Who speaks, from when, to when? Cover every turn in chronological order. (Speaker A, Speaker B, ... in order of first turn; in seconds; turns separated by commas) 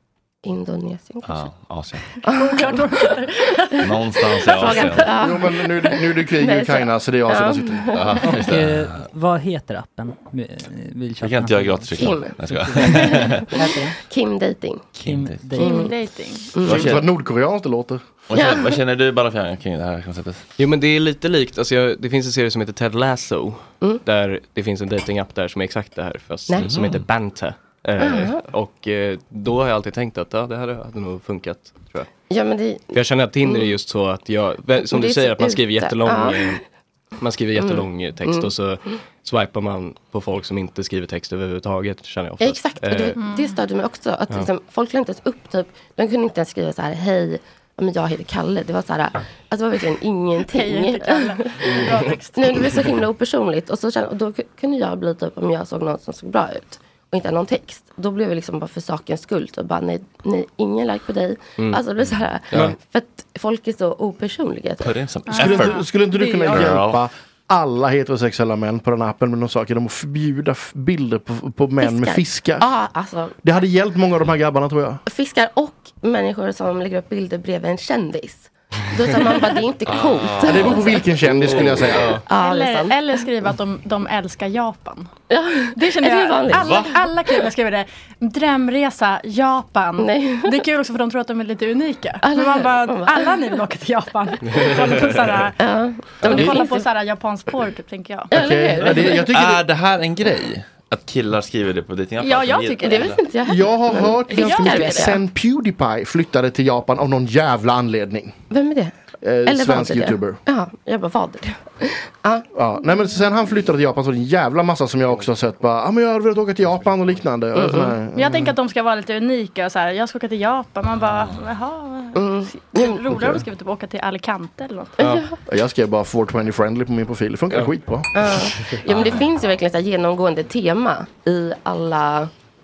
Speaker A: 0.4-1.5, Speaker B: 1.2-2.2, Speaker A: 2.2-3.2, Speaker C: 2.3-3.9, Speaker B: 3.8-5.1, Speaker A: 4.5-8.0, Speaker D: 5.2-7.9, Speaker B: 7.9-8.9, Speaker E: 8.3-14.0, Speaker B: 11.2-13.5, Speaker A: 12.0-13.4, Speaker A: 14.0-14.9, Speaker B: 14.9-15.6, Speaker E: 15.1-15.7, Speaker A: 15.6-15.9, Speaker C: 15.6-16.6, Speaker A: 16.6-16.9, Speaker B: 16.6-17.0, Speaker D: 16.7-18.0, Speaker B: 18.3-20.4, Speaker A: 18.3-18.8, Speaker F: 20.6-32.1, Speaker B: 26.6-27.1, Speaker A: 28.0-28.4, Speaker A: 32.3-33.8, Speaker F: 32.9-36.6, Speaker A: 34.9-36.6, Speaker F: 37.2-43.2, Speaker A: 37.6-38.5, Speaker A: 42.4-51.6, Speaker C: 43.2-43.6, Speaker C: 50.5-52.5, Speaker F: 51.6-52.7, Speaker A: 52.3-64.9, Speaker F: 62.5-62.8, Speaker B: 64.8-65.8, Speaker C: 65.3-66.7, Speaker D: 65.4-72.7, Speaker B: 66.4-67.0, Speaker A: 71.8-73.3, Speaker D: 73.4-75.0, Speaker A: 75.1-81.0, Speaker B: 79.9-80.9, Speaker D: 80.4-82.1, Speaker F: 81.2-82.2, Speaker B: 81.4-82.1, Speaker A: 82.2-83.2, Speaker C: 82.3-85.1, Speaker A: 85.3-86.9, Speaker C: 85.8-95.6, Speaker B: 86.5-87.0, Speaker A: 90.0-90.6, Speaker A: 92.2-93.4, Speaker F: 94.5-95.3, Speaker A: 95.6-96.9, Speaker C: 96.2-98.3, Speaker D: 96.3-96.5, Speaker A: 98.3-99.2, Speaker D: 98.3-99.6, Speaker B: 99.3-103.2, Speaker C: 102.2-103.1, Speaker A: 102.8-105.2, Speaker D: 103.5-108.4, Speaker C: 104.3-104.9, Speaker A: 108.5-108.9, Speaker D: 109.2-110.4, Speaker A: 109.5-112.5, Speaker D: 112.5-118.5, Speaker A: 117.5-118.0, Speaker C: 118.1-125.0, Speaker A: 122.2-123.3, Speaker F: 125.0-125.2, Speaker A: 125.0-125.4, Speaker D: 125.5-128.2, Speaker A: 128.1-132.3